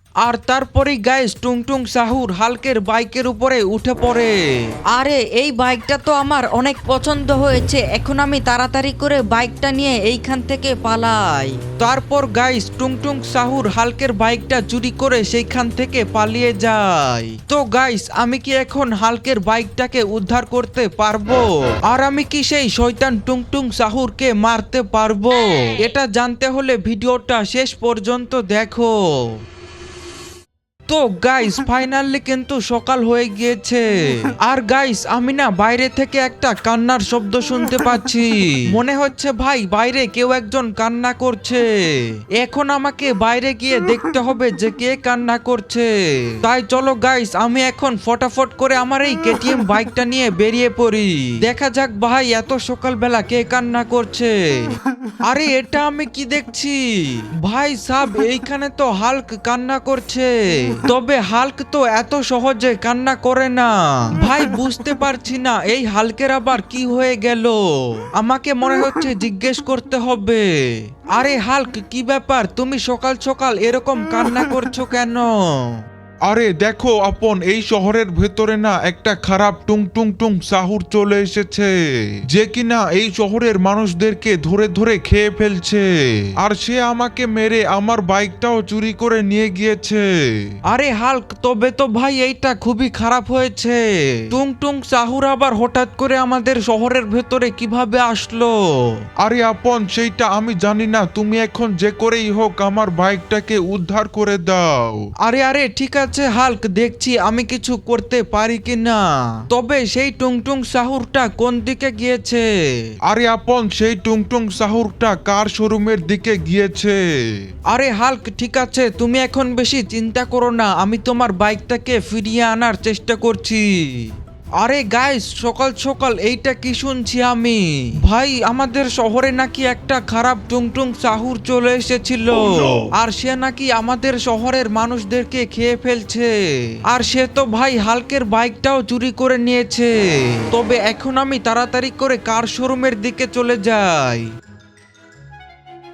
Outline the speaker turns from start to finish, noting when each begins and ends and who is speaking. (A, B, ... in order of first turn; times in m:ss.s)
0:00.2-0:04.8 A
0:04.9-0:11.6 B
0:08.1-0:08.8 A
0:11.7-0:29.4 A
0:30.9-1:15.8 A
1:16.3-1:21.8 C
1:22.3-1:25.8 C
1:26.4-1:30.5 C
1:30.7-1:39.0 A
1:39.2-1:45.1 C
1:45.2-1:52.8 A
1:53.1-1:57.4 C
1:57.7-2:24.3 A